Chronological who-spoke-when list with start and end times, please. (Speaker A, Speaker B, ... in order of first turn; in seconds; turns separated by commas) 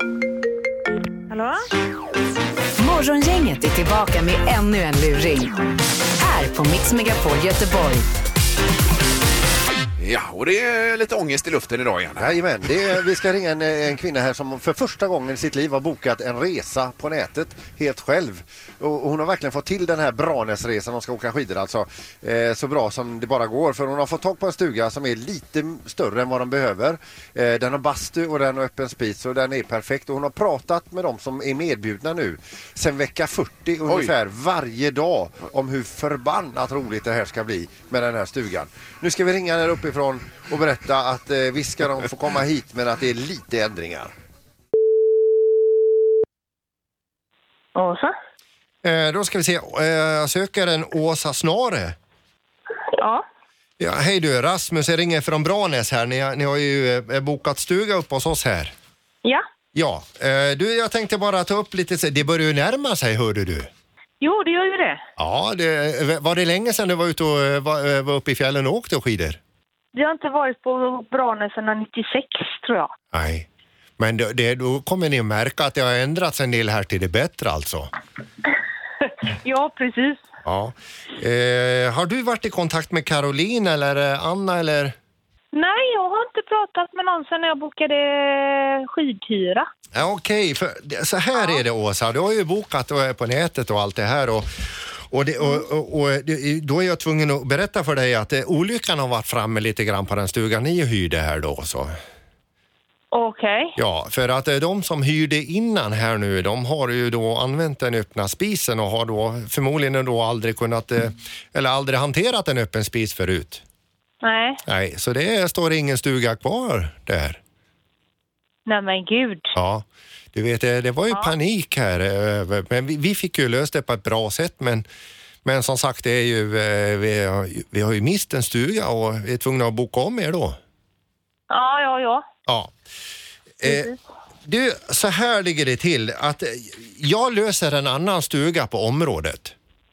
Speaker A: 1.3-1.7, Speaker B: 2.8-5.5, Speaker B: 6.2-8.1, Speaker C: 10.0-12.3, Speaker D: 12.2-44.1, Speaker C: 33.9-34.1, Speaker A: 47.8-48.1, Speaker E: 48.8-52.0, Speaker A: 53.0-53.2, Speaker E: 53.8-58.7, Speaker E: 59.7-63.7, Speaker A: 64.2-65.0, Speaker E: 65.2-69.4, Speaker A: 70.0-72.9, Speaker E: 73.1-73.5, Speaker E: 74.0-77.9, Speaker A: 79.4-80.3, Speaker E: 80.5-84.9, Speaker A: 85.5-89.7, Speaker E: 89.9-94.5, Speaker E: 95.1-102.0, Speaker A: 103.1-103.8, Speaker E: 103.8-113.6, Speaker A: 114.2-114.6, Speaker E: 114.7-117.4, Speaker A: 118.7-119.6, Speaker E: 119.6-124.8, Speaker A: 121.1-121.3, Speaker E: 125.4-130.6, Speaker A: 131.5-132.3, Speaker E: 132.5-132.7, Speaker E: 133.6-133.9, Speaker A: 133.7-134.0, Speaker E: 134.5-139.5